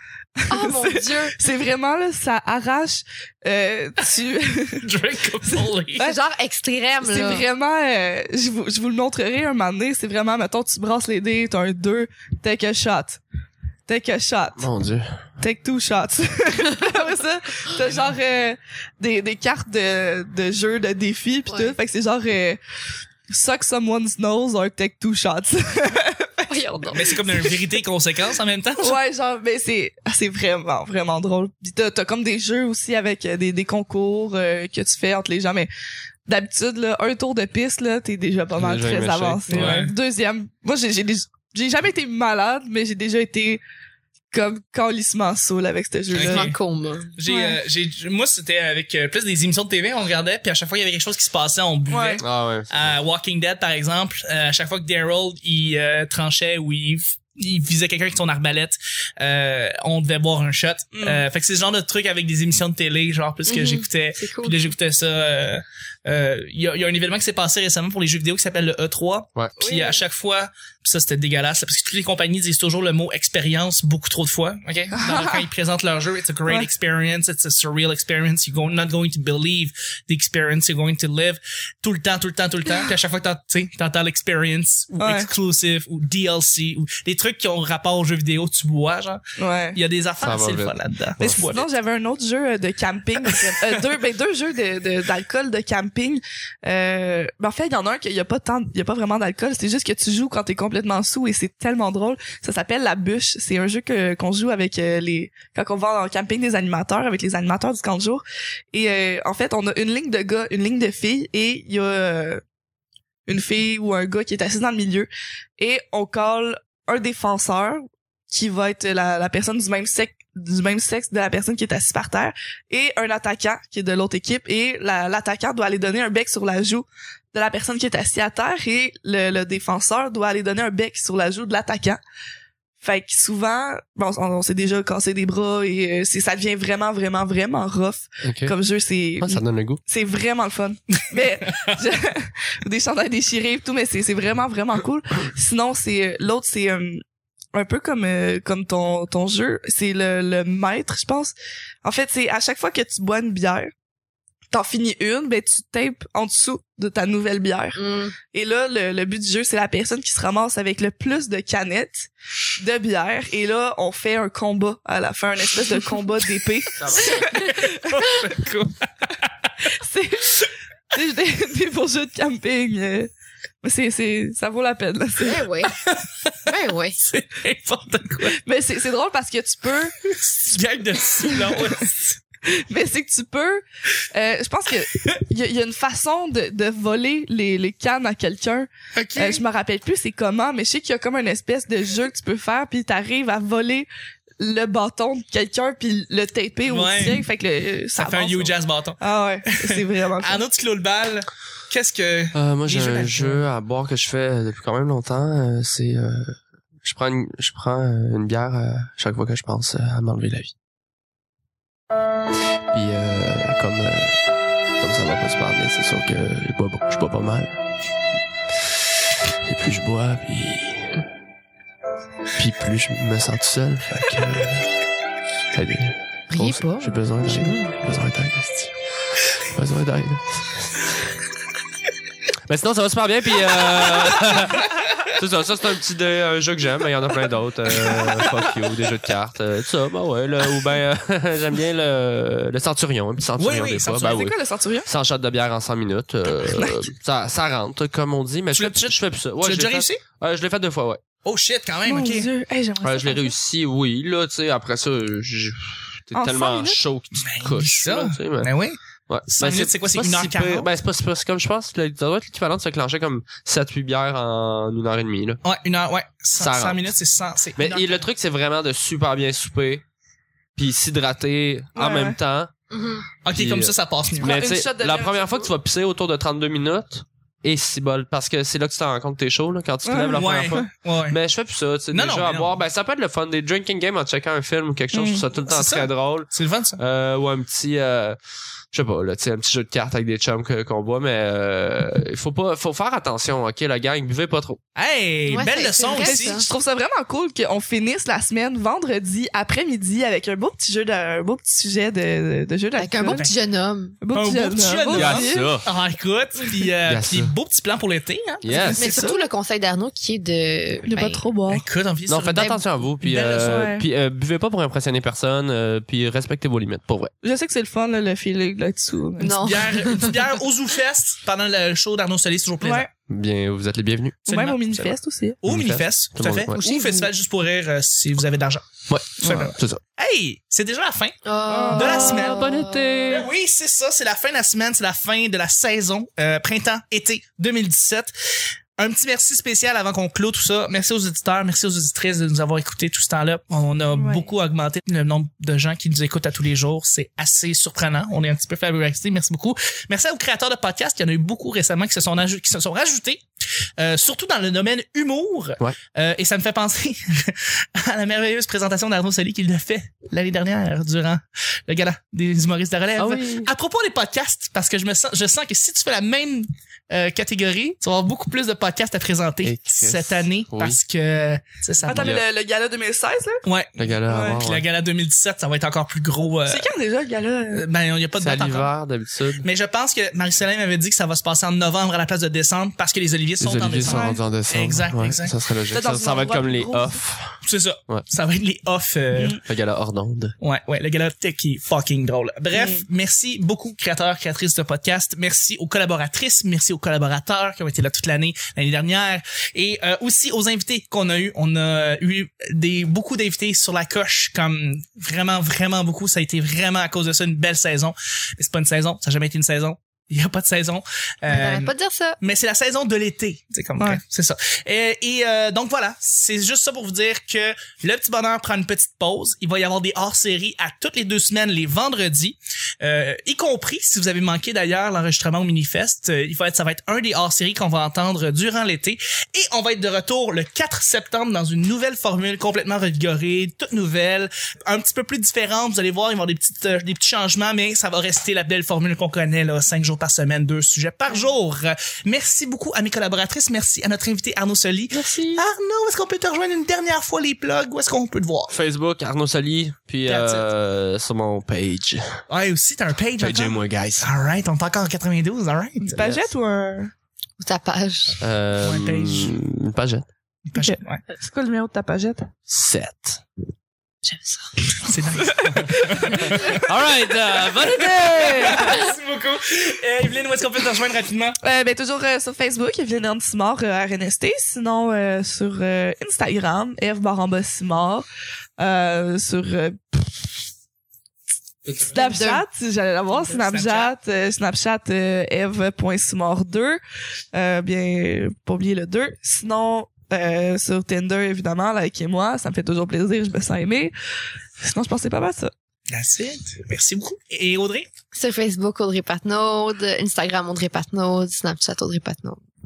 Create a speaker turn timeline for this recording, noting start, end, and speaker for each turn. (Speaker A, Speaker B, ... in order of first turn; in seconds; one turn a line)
Speaker A: 0.4-4.9
Speaker B: 0.5-1.4
Speaker C: 4.8-6.1
Speaker A: 5.4-6.1
Speaker B: 6.0-7.5
Speaker A: 7.0-13.2
Speaker A: 13.9-14.7
Speaker D: 14.6-15.2
Speaker A: 15.4-22.6
Speaker C: 17.8-18.1
Speaker B: 21.5-21.8
Speaker A: 23.3-26.5
Speaker B: 26.5-27.2
Speaker C: 26.9-29.0
Speaker A: 28.8-35.7
Speaker A: 36.3-43.6
Speaker D: 38.5-39.8
Speaker C: 39.5-39.9
Speaker A: 44.3-46.5
Speaker C: 46.1-46.5
Speaker B: 46.1-47.1
Speaker C: 47.1-89.2
Speaker A: 47.3-47.6
Speaker A: 51.9-52.2
Speaker D: 52.2-52.9
Speaker A: 60.9-61.2
Speaker B: 63.5-64.7
Speaker A: 69.6-69.9
Speaker A: 75.0-75.4
Speaker A: 85.0-85.3
Speaker A: 89.4-89.8
Speaker C: 89.7-91.7
Speaker D: 90.2-91.5
Speaker A: 91.4-112.4
Speaker C: 93.2-93.5
Speaker A: 113.3-132.0
Speaker A: 132.8-147.0
Speaker D: 138.2-138.6
Speaker D: 139.2-139.8
Speaker C: 141.0-141.7
Speaker A: 147.5-153.7
Speaker A: 154.5-168.1
Speaker B: 157.8-158.2
Speaker D: 166.8-167.1
Speaker C: 166.9-169.7
Speaker A: 169.8-173.1
Speaker A: 173.6-175.5
Speaker B: 175.2-175.8
Speaker C: 175.8-176.3
Speaker B: 176.4-177.0
Speaker C: 177.0-178.4
Speaker A: 178.3-179.9
Speaker C: 180.0-182.2
Speaker A: 181.2-181.7
Speaker A: 182.4-193.9
Speaker C: 188.9-189.4
Speaker A: 194.4-200.4
Speaker C: 196.7-197.3
Speaker C: 198.0-199.0
Speaker C: 199.5-203.4
Speaker D: 202.3-210.5
Speaker D: 212.7-214.2
Speaker D: 214.8-217.6
Speaker D: 219.3-221.0
Speaker D: 222.3-224.7
Speaker D: 225.5-228.7
Speaker B: 226.3-227.5
Speaker D: 229.5-230.8
Speaker D: 232.5-251.0
Speaker C: 237.9-238.2
Speaker C: 243.4-244.2
Speaker A: 244.0-244.9
Speaker A: 246.4-246.8
Speaker C: 248.5-250.0
Speaker C: 251.2-252.3
Speaker A: 251.8-253.3
Speaker D: 252.8-258.5
Speaker A: 256.1-256.8
Speaker C: 257.2-258.8
Speaker D: 259.1-265.4
Speaker C: 259.3-260.7
Speaker C: 265.4-268.1
Speaker D: 266.4-266.9
Speaker D: 267.6-269.8
Speaker D: 270.6-272.5
Speaker A: 271.7-272.2
Speaker B: 272.7-273.1
Speaker C: 273.2-274.4
Speaker D: 273.3-288.2
Speaker A: 274.2-275.5
Speaker A: 279.8-280.7
Speaker C: 280.1-281.2
Speaker C: 281.9-282.5
Speaker A: 284.9-285.2
Speaker C: 285.4-286.8
Speaker D: 288.7-294.6
Speaker C: 294.8-296.4
Speaker B: 295.3-296.5
Speaker A: 295.9-303.2
Speaker B: 302.8-304.0
Speaker C: 303.1-303.4
Speaker A: 304.0-305.5
Speaker C: 304.1-308.8
Speaker D: 304.9-305.7
Speaker D: 306.9-307.3
Speaker D: 308.4-309.0
Speaker A: 308.5-309.2
Speaker B: 308.8-311.2
Speaker A: 310.9-311.6
Speaker C: 311.5-313.7
Speaker D: 312.1-317.1
Speaker A: 313.4-313.8
Speaker A: 317.2-319.7
Speaker B: 319.2-320.1
Speaker C: 319.4-322.9
Speaker A: 322.6-322.9
Speaker D: 323.1-324.9
Speaker A: 324.3-325.4
Speaker C: 324.3-324.6
Speaker C: 325.4-331.1
Speaker D: 325.4-326.6
Speaker A: 326.6-327.1
Speaker D: 328.9-329.8
Speaker B: 331.2-333.1
Speaker A: 331.5-332.4
Speaker C: 331.7-332.5
Speaker D: 332.0-333.3
Speaker C: 333.1-338.1
Speaker C: 338.8-353.2
Speaker A: 343.9-344.3
Speaker C: 353.8-372.2
Speaker D: 363.1-363.4
Speaker D: 369.4-370.8
Speaker A: 371.8-373.4
Speaker D: 371.9-372.2
Speaker C: 373.4-376.7
Speaker D: 373.8-374.6
Speaker A: 374.1-374.4
Speaker A: 376.5-377.7
Speaker C: 377.5-378.7
Speaker D: 378.2-379.4
Speaker C: 379.4-385.3
Speaker D: 383.4-388.0
Speaker A: 383.9-384.2
Speaker A: 385.7-387.0
Speaker C: 387.4-389.4
Speaker A: 389.1-389.4
Speaker D: 389.4-390.3
Speaker C: 390.4-448.6
Speaker A: 392.5-392.8
Speaker B: 411.3-412.2
Speaker D: 448.5-452.2
Speaker C: 450.1-450.5
Speaker C: 452.3-456.3
Speaker D: 453.2-454.1
Speaker A: 455.8-456.9
Speaker B: 457.4-458.2
Speaker D: 458.2-460.1
Speaker C: 458.6-459.4
Speaker C: 460.5-461.0
Speaker A: 460.6-462.3
Speaker D: 462.5-463.2
Speaker B: 464.0-464.8
Speaker C: 464.8-466.6
Speaker A: 465.2-466.7
Speaker D: 466.4-468.7
Speaker A: 467.4-468.9
Speaker C: 468.2-471.4
Speaker A: 471.4-478.1
Speaker A: 478.6-480.4
Speaker C: 481.6-481.9
Speaker A: 481.9-486.8
Speaker B: 482.0-482.4
Speaker C: 483.1-483.9
Speaker A: 487.3-493.9
Speaker A: 494.6-495.5
Speaker C: 495.9-497.9
Speaker B: 498.1-502.4